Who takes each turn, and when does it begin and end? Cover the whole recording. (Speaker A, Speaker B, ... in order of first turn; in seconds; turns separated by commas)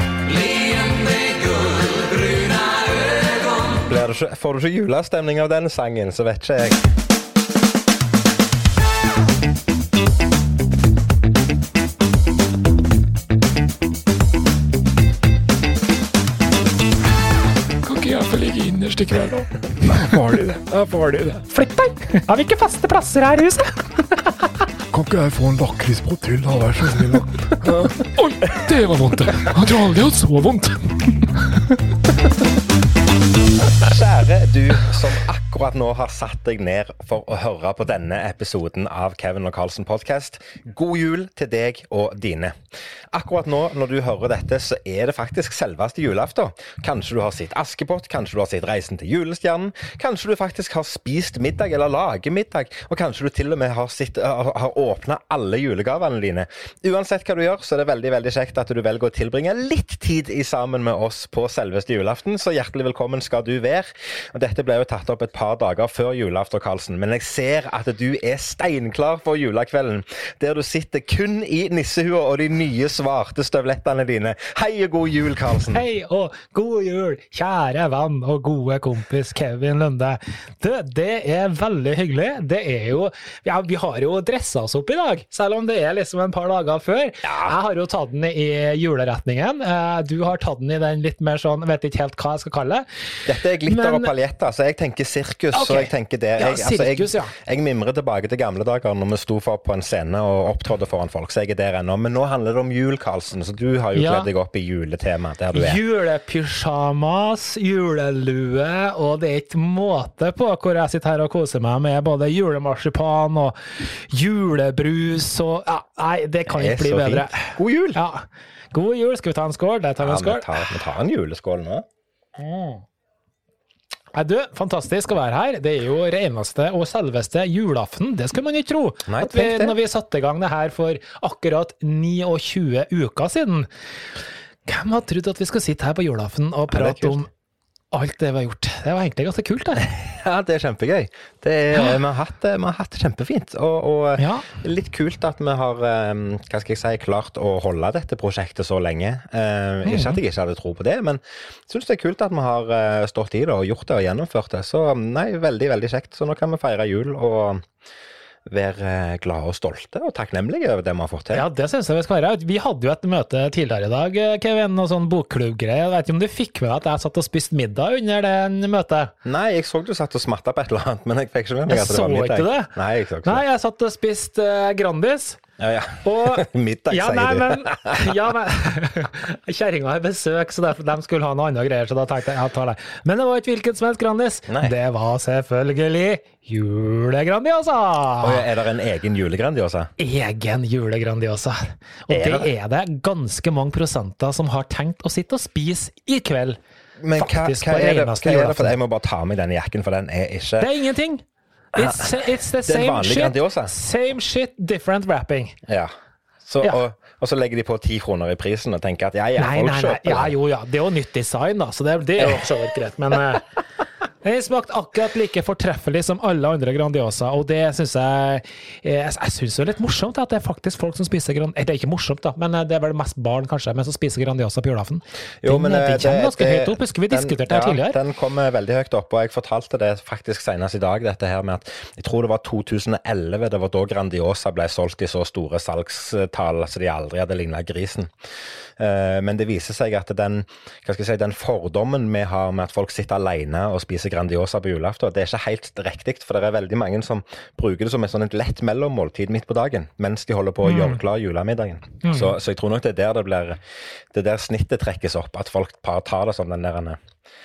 Speaker A: 2.0-2.8, Speaker B: 3.7-6.9, Speaker C: 17.8-21.4, Speaker A: 21.5-24.3, Speaker C: 24.9-30.8, Speaker B: 33.8-42.6, Speaker B: 43.1-75.8, Speaker A: 75.7-92.8, Speaker B: 87.2-87.5, Speaker B: 93.2-105.8, Speaker A: 93.6-94.1, Speaker A: 95.5-97.3, Speaker A: 103.9-104.3, Speaker A: 105.5-120.8, Speaker B: 116.5-118.0, Speaker B: 120.0-121.8, Speaker A: 122.4-122.8, Speaker A: 124.1-133.7, Speaker B: 129.1-129.8, Speaker A: 134.7-137.3, Speaker B: 136.7-137.2, Speaker A: 137.9-139.9, Speaker B: 139.8-157.6, Speaker A: 141.7-142.0, Speaker A: 144.2-144.5, Speaker A: 149.8-150.2, Speaker B: 158.5-161.4, Speaker A: 161.3-169.1, Speaker B: 169.2-173.4, Speaker A: 171.7-175.4, Speaker B: 175.6-178.1, Speaker A: 176.0-188.4, Speaker B: 184.5-184.7, Speaker B: 188.2-189.9, Speaker A: 190.0-196.6, Speaker B: 192.1-192.5, Speaker B: 197.0-200.7, Speaker A: 197.1-198.7, Speaker A: 200.6-205.6, Speaker B: 201.8-203.7, Speaker B: 205.7-205.9, Speaker B: 206.4-210.3, Speaker A: 209.4-213.5, Speaker B: 212.2-212.5, Speaker A: 214.2-228.0, Speaker B: 225.4-238.1, Speaker B: 238.8-253.6, Speaker A: 250.6-251.0, Speaker A: 252.0-252.3, Speaker B: 254.1-257.0